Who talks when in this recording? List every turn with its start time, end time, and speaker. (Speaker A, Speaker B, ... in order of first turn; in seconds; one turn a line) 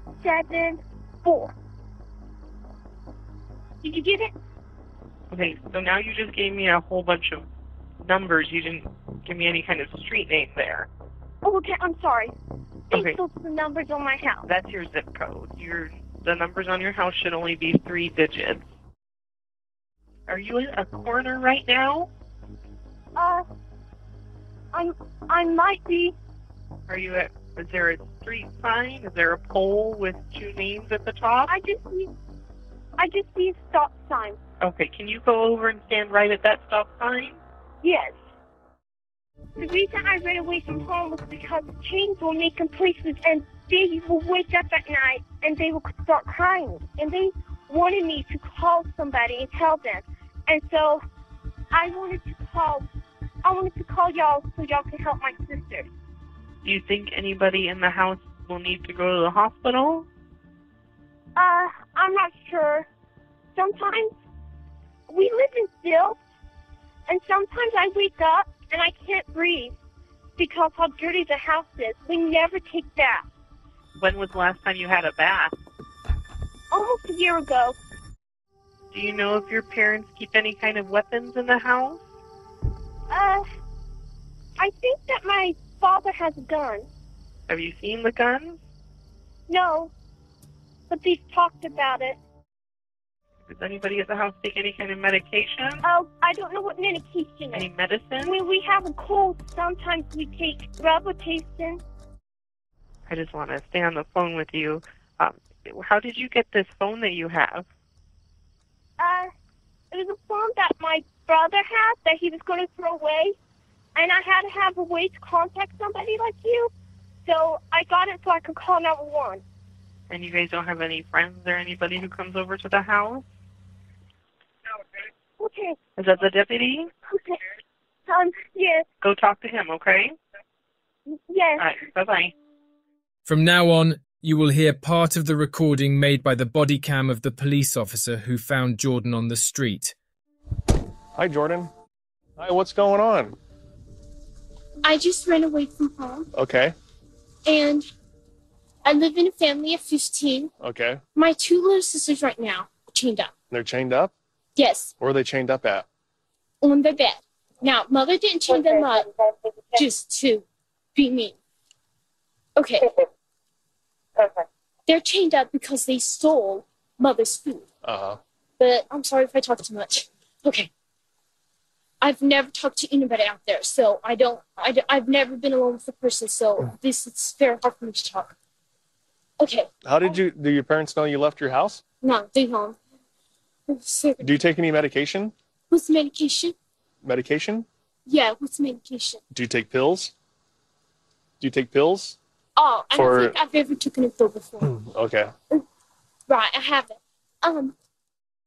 Speaker A: 0.2-1.5
Speaker A: 3.8-4.3
Speaker B: 5.3-7.5
Speaker B: 8.0-10.9
Speaker A: 11.4-12.3
Speaker A: 12.9-14.5
Speaker B: 12.9-13.2
Speaker B: 14.5-18.7
Speaker B: 20.3-22.1
Speaker A: 23.1-23.5
Speaker A: 24.7-26.1
Speaker B: 26.9-31.5
Speaker A: 31.5-32.1
Speaker A: 33.0-34.4
Speaker B: 34.6-37.4
Speaker A: 37.8-38.2
Speaker A: 39.6-51.0
Speaker A: 51.7-52.9
Speaker A: 53.4-55.9
Speaker B: 56.6-60.1
Speaker A: 61.4-62.9
Speaker A: 63.5-64.1
Speaker A: 65.1-66.2
Speaker A: 67.1-69.8
Speaker A: 70.4-73.3
Speaker B: 74.0-75.5
Speaker A: 76.7-77.8
Speaker B: 78.9-82.0
Speaker A: 83.1-83.5
Speaker A: 84.6-86.9
Speaker B: 87.5-88.6
Speaker A: 89.5-89.9
Speaker A: 90.9-92.2
Speaker B: 93.5-95.8
Speaker A: 95.8-101.8
Speaker B: 97.5-98.3
Speaker B: 103.1-107.7
Speaker A: 109.0-109.3
Speaker A: 109.9-113.4
Speaker A: 114.0-116.7
Speaker A: 117.2-119.4
Speaker B: 120.1-123.2
Speaker A: 125.4-125.8
Speaker B: 126.0-126.9
Speaker A: 127.1-127.4
Speaker A: 128.1-128.9
Speaker B: 129.0-130.2
Speaker A: 131.1-131.7
Speaker B: 131.6-132.3
Speaker C: 133.3-140.0
Speaker D: 141.2-141.7
Speaker D: 142.4-143.4
Speaker E: 144.8-146.3
Speaker D: 146.3-146.8
Speaker E: 147.4-147.9
Speaker E: 148.8-150.5
Speaker D: 150.6-151.0
Speaker E: 151.2-153.3
Speaker D: 153.5-154.1
Speaker E: 154.6-154.9
Speaker D: 155.0-155.9
Speaker E: 156.6-159.1
Speaker E: 159.7-161.4
Speaker E: 162.6-163.0
Speaker E: 164.9-167.7
Speaker D: 167.8-168.2
Speaker E: 168.6-170.7
Speaker E: 172.0-178.3
Speaker E: 179.4-180.3
Speaker D: 179.8-181.8
Speaker E: 182.0-182.8
Speaker E: 183.7-184.5
Speaker D: 184.2-185.3
Speaker E: 185.7-186.6
Speaker D: 187.0-187.7
Speaker E: 188.1-189.2
Speaker D: 189.3-190.1
Speaker D: 191.4-192.2
Speaker E: 192.6-194.7
Speaker D: 192.9-193.3
Speaker D: 194.6-195.3
Speaker E: 196.3-197.8